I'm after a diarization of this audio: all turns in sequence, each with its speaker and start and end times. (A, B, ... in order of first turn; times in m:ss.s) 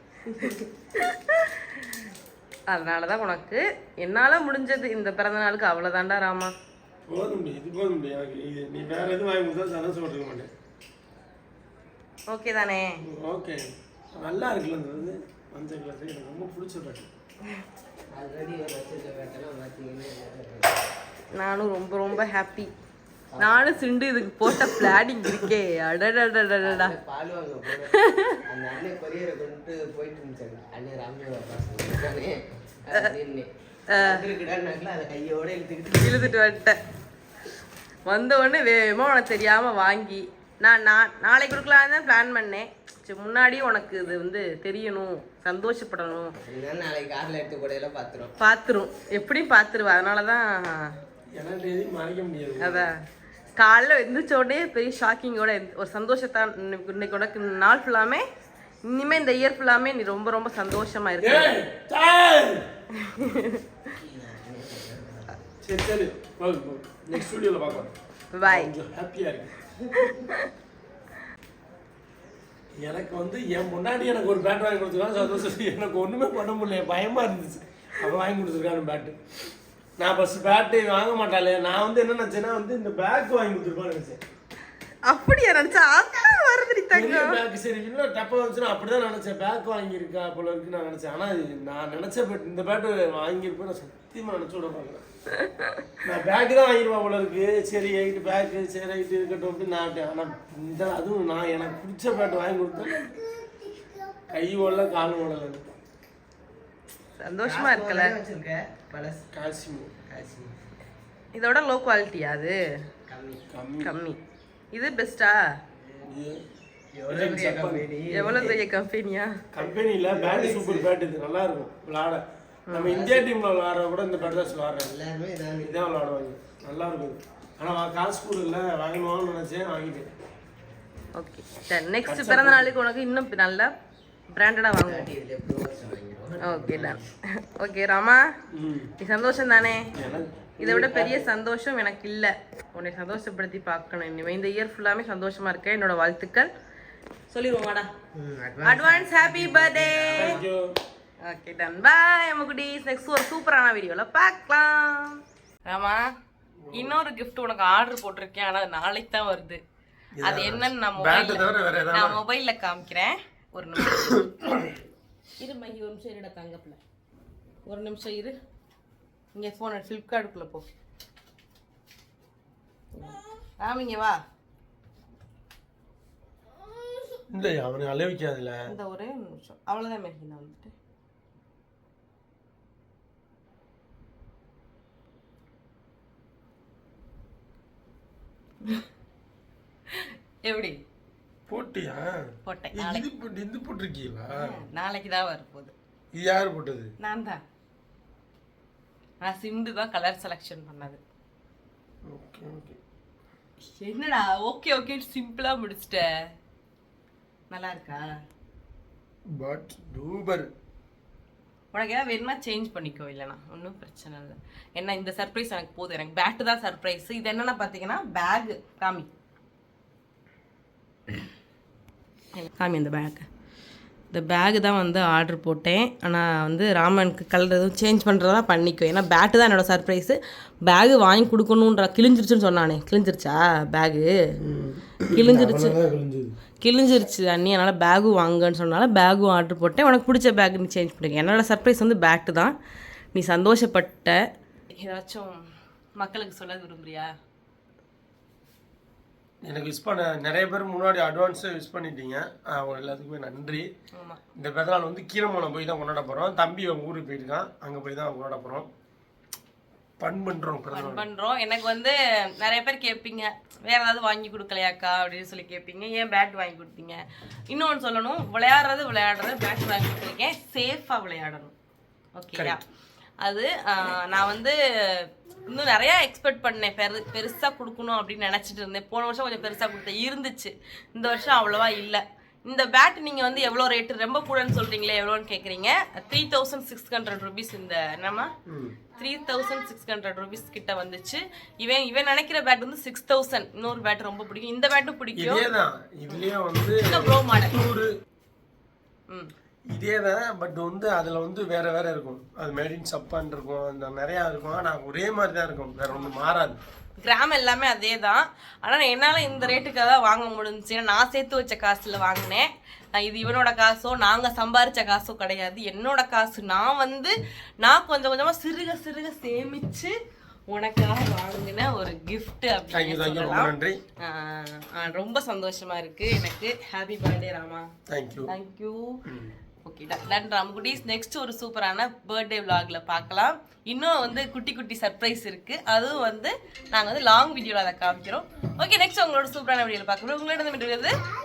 0:00.3-0:02.0 A
0:02.7-0:06.5 A
0:07.1-0:10.5 B
0:12.3-0:12.9 A
0:13.0-0:13.6 B
0:14.1-0:17.1 B
0:18.1-0:20.9 C
0:21.3-0:22.7 A
0:23.3-0:23.7 C
0:23.4-0:27.0 A
0:26.6-0:27.9 C
0:27.9-0:28.4 A
0:28.5-0:36.4 C
0:33.9-0:34.2 A
0:36.0-0:36.8 A
0:38.1-0:46.3 A
0:46.4-0:48.3 C
0:48.4-0:51.0 A
0:51.4-0:52.9 B
0:52.6-0:52.9 A
0:53.6-0:58.3 A
0:58.9-1:01.6 A
1:01.2-1:02.7 B
1:03.0-1:03.6 A
1:03.9-1:05.4 C
1:05.6-1:09.6 B
1:08.3-1:08.7 A
1:10.0-1:10.5 A
1:12.8-1:19.2 B
1:20.0-1:24.2 B
1:25.1-1:27.4 A
1:26.9-1:35.0 B
1:36.0-1:43.1 B
1:44.3-1:45.6 B
1:47.2-1:48.2 A
1:47.4-1:49.3 C
1:49.3-1:49.9 B
1:50.1-1:50.6 C
1:51.4-1:52.6 A
1:53.1-1:53.4 C
1:53.5-1:54.0 B
1:53.8-1:54.2 A
1:54.7-1:55.4 A
1:56.0-1:56.4 B
1:56.9-1:58.6 C
1:57.1-1:57.9 B
1:58.1-1:59.4 A
1:59.5-2:04.9 B
1:59.6-2:00.9 C
2:02.7-2:03.0 A
2:02.8-2:03.3 C
2:04.8-2:05.8 C
2:05.6-2:10.1 B
2:11.2-2:13.7 A
2:12.0-2:12.7 B
2:14.3-2:15.1 A
2:14.8-2:17.0 C
2:16.4-2:18.3 A
2:18.5-2:18.9 B
2:19.0-2:19.9 A
2:20.0-2:21.3 B
2:20.6-2:26.5 A
2:27.3-2:27.9 A
2:28.2-2:30.4 C
2:28.6-2:30.4 A
2:30.2-2:30.8 B
2:31.2-2:36.1 A
2:36.6-2:37.0 B
2:36.7-2:39.6 A
2:40.2-2:42.2 B
2:40.2-2:44.3 A
2:43.9-2:44.7 B
2:45.4-2:46.8 A
2:47.7-2:48.4 A
2:49.4-2:50.7 A
2:52.9-2:54.2 A
2:57.3-2:58.6 B
2:58.7-3:00.7 A
3:09.9-3:10.8 A
3:11.5-3:12.2 B
3:12.5-3:13.1 A
3:12.7-3:14.5 B
3:14.3-3:15.7 A
3:16.1-3:16.9 B
3:17.0-3:17.4 A
3:19.2-3:21.0 A
3:22.1-3:22.8 B
3:23.7-3:26.1 A
3:27.5-3:28.0 A
3:29.3-3:30.5 B
3:31.7-3:39.1 A
3:42.4-3:43.3 A
3:44.1-3:54.1 A
3:54.4-3:56.4 B
3:55.1-3:55.8 A
3:56.6-4:02.6 A
4:03.1-4:04.2 A
4:04.8-4:05.4 A
4:06.0-4:07.1 A
4:09.4-4:13.7 B
4:14.0-4:14.2 A
4:14.4-4:18.7 B
4:20.0-4:21.1 B
4:20.7-4:31.5 A
4:32.2-4:32.6 A
4:32.3-4:32.6 B
4:33.2-4:48.3 A
4:48.5-4:48.8 B
4:49.0-4:55.5 A
4:55.2-4:57.9 B
4:56.1-4:57.6 A
4:59.7-5:06.6 B
5:07.0-5:20.0 A
5:20.5-5:27.7 A
5:22.7-5:23.8 B
5:27.9-5:28.3 B
5:28.3-5:29.0 A
5:29.1-5:29.4 B
5:29.6-5:40.9 A